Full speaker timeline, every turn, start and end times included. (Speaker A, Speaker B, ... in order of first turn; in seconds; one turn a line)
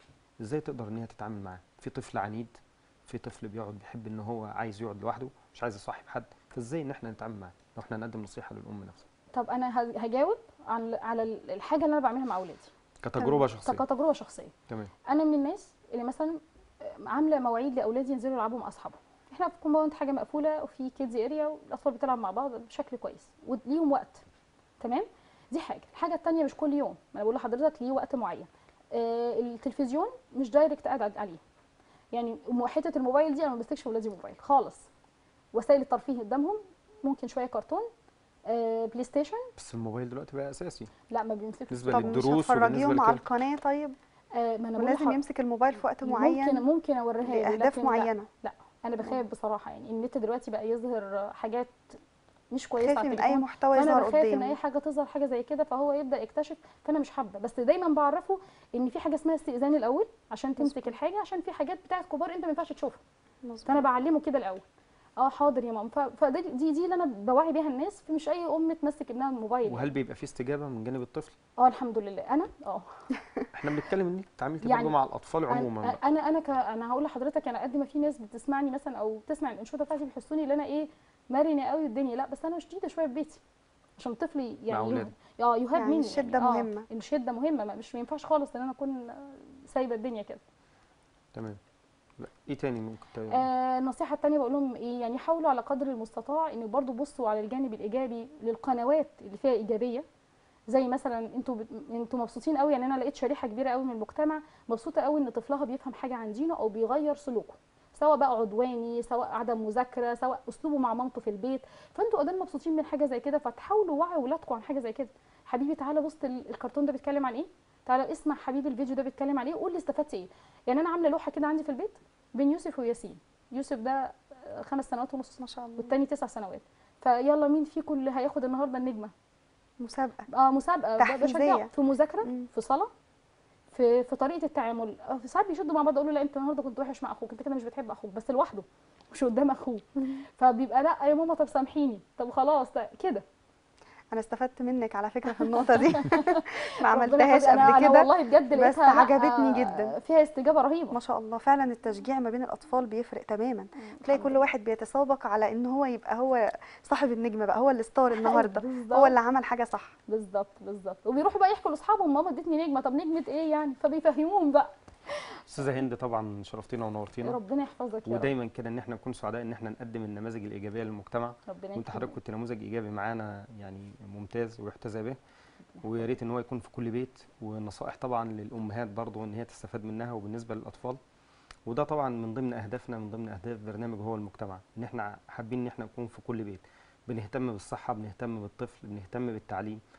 Speaker A: 0.4-9.0
Speaker B: 9.3-14.5
Speaker A: 13.0-13.8
Speaker B: 15.1-24.2
Speaker B: 24.8-31.4
Speaker B: 32.1-34.9
Speaker B: 35.5-37.9
Speaker B: 38.5-39.5
Speaker A: 39.6-40.9
Speaker B: 41.1-42.2
Speaker A: 41.7-43.2
Speaker C: 41.9-44.0
Speaker B: 44.3-45.2
Speaker C: 44.8-46.6
Speaker B: 46.0-52.0
Speaker C: 47.2-48.3
Speaker B: 52.5-63.0
Speaker C: 52.8-54.6
Speaker C: 60.6-61.0
Speaker C: 63.4-63.8
Speaker B: 63.6-64.6
Speaker B: 65.2-69.9
Speaker A: 69.6-71.3
Speaker B: 71.6-72.9
Speaker A: 73.5-76.0
Speaker B: 74.6-74.9
Speaker B: 75.5-83.4
Speaker B: 84.0-90.4
Speaker A: 84.7-85.1
Speaker C: 85.7-86.8
Speaker A: 92.2-93.4
Speaker B: 93.3-100.0
Speaker B: 100.7-129.1
Speaker C: 125.4-126.0
Speaker C: 129.8-130.3
Speaker B: 130.3-132.9
Speaker C: 131.0-131.7
Speaker C: 132.2-132.5
Speaker B: 133.7-143.2
Speaker C: 144.1-149.9
Speaker B: 145.5-151.0
Speaker C: 150.9-159.9
Speaker B: 153.8-154.4
Speaker B: 158.1-159.1
Speaker B: 160.1-165.3
Speaker A: 165.5-167.4
Speaker B: 167.2-168.3
Speaker A: 168.1-175.2
Speaker B: 171.5-172.2
Speaker A: 175.8-181.0
Speaker A: 181.7-189.8